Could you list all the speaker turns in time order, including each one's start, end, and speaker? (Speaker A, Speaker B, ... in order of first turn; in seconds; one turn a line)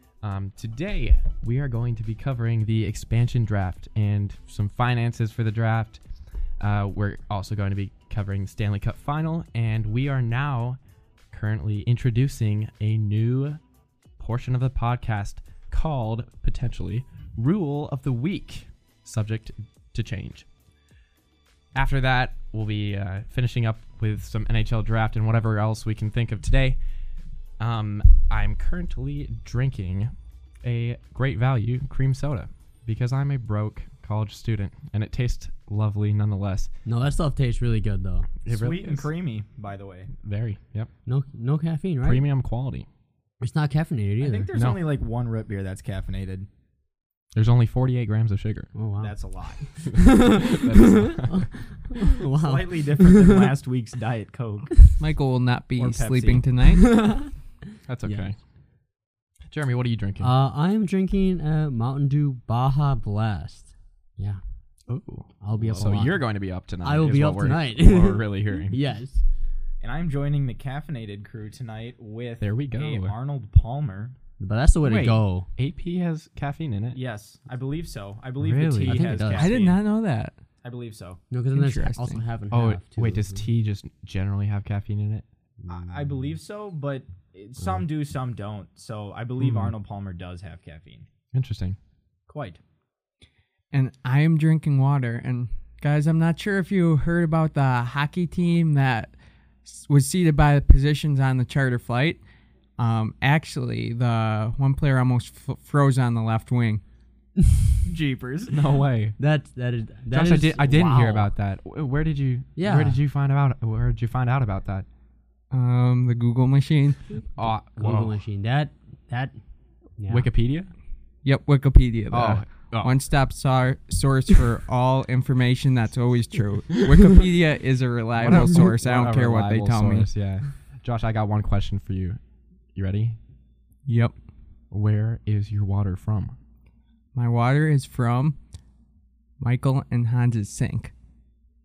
Speaker A: 0.2-6.0
Speaker A: 6.6-10.8
Speaker A: 11.3-13.6
Speaker A: 14.2-20.4
Speaker A: 21.7-26.8
Speaker A: 27.6-30.1
Speaker A: 30.6-36.7
Speaker B: 36.9-38.3
Speaker A: 38.4-39.0
Speaker C: 38.5-40.1
Speaker A: 40.1-40.9
Speaker B: 41.0-42.2
Speaker A: 42.0-42.9
Speaker B: 43.4-44.5
Speaker C: 44.2-46.5
Speaker A: 44.5-44.8
Speaker A: 47.3-48.7
Speaker B: 48.7-49.1
Speaker C: 49.0-49.6
Speaker B: 49.7-53.5
Speaker A: 50.1-51.5
Speaker C: 52.3-54.9
Speaker D: 55.0-56.9
Speaker C: 55.8-56.4
Speaker B: 56.7-57.3
Speaker A: 57.9-58.4
Speaker A: 59.5-60.3
Speaker B: 60.2-64.4
Speaker A: 64.9-68.8
Speaker B: 65.4-66.2
Speaker B: 66.8-69.2
Speaker C: 69.8-74.1
Speaker A: 72.4-73.2
Speaker B: 74.4-75.5
Speaker A: 74.8-77.0
Speaker C: 76.9-79.8
Speaker A: 78.4-79.2
Speaker B: 78.9-79.5
Speaker D: 79.3-80.3
Speaker C: 80.6-81.2
Speaker B: 81.3-83.4
Speaker D: 81.5-82.2
Speaker A: 82.5-85.2
Speaker C: 85.7-91.1
Speaker A: 89.4-89.7
Speaker A: 91.3-91.8
Speaker C: 92.3-92.6
Speaker D: 93.7-99.1
Speaker D: 99.6-102.2
Speaker D: 102.8-106.8
Speaker C: 107.8-108.6
Speaker A: 108.5-109.2
Speaker B: 109.2-111.3
Speaker A: 110.1-114.8
Speaker B: 112.5-113.0
Speaker D: 115.5-117.1
Speaker A: 117.3-118.2
Speaker B: 117.4-119.3
Speaker B: 120.0-120.3
Speaker A: 120.1-120.7
Speaker D: 121.2-130.1
Speaker A: 122.1-122.9
Speaker A: 128.2-132.2
Speaker A: 132.7-133.2
Speaker D: 133.8-134.1
Speaker A: 134.7-136.3
Speaker D: 137.1-138.4
Speaker D: 139.4-140.9